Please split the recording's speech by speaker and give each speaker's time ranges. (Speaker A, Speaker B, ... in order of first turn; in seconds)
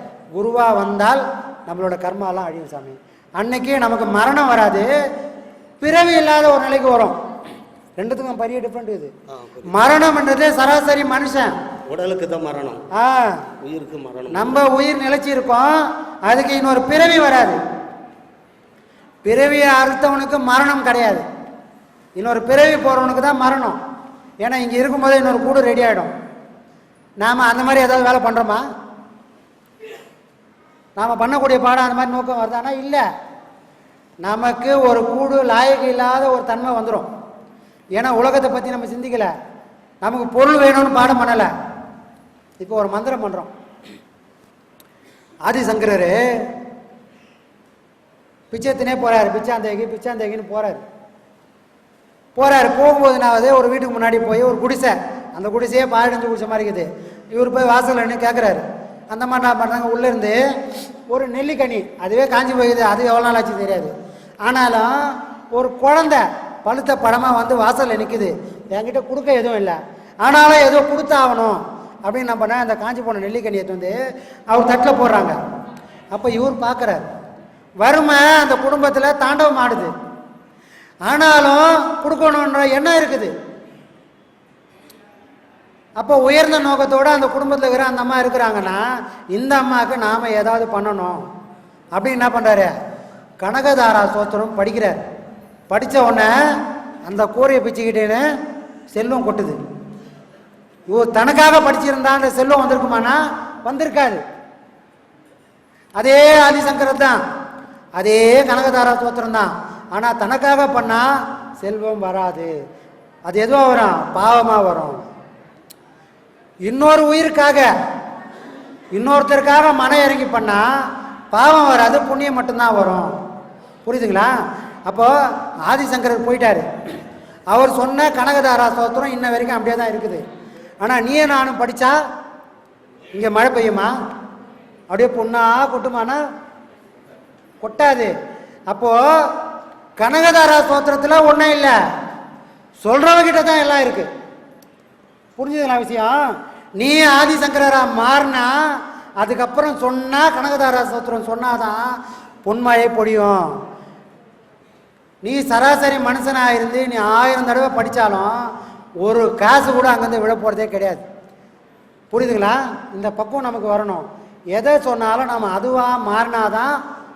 Speaker A: 0.3-4.9, 5.8-7.2, 8.0-9.1, 9.7-11.5, 12.9-13.3, 14.3-17.6, 19.2-21.2, 22.1-23.8, 24.4-26.1, 27.2-28.6, 31.0-33.0, 34.2-37.1, 38.0-39.3, 40.0-41.5, 42.6-43.5, 45.5-46.2, 48.5-50.8, 52.4-60.4, 61.1-63.9, 64.4-64.9, 65.5-74.0, 74.5-75.4, 76.1-77.1, 77.8-79.9, 81.1-83.3, 86.0-88.8, 89.3-91.2, 91.9-92.8, 93.4-95.0, 95.7-96.3, 97.0-98.2, 98.9-99.6, 100.9-104.2, 106.0-107.2, 108.0-111.0, 111.6-112.5, 113.3-115.0, 116.7-117.7, 118.9-120.6, 121.3-123.1, 123.9-124.3, 124.9-125.1, 125.7-126.6, 127.5-130.2, 130.8-132.0, 133.1-133.9, 134.9-136.2, 137.6-138.1, 138.7-139.0, 140.0-141.8, 142.8-144.1, 145.4-146.1, 146.8-148.5, 149.2-151.9, 152.4-153.4, 155.2-158.3, 159.0-161.0, 162.1-166.8
Speaker B: 9.3-9.7, 11.9-12.8, 13.6-14.6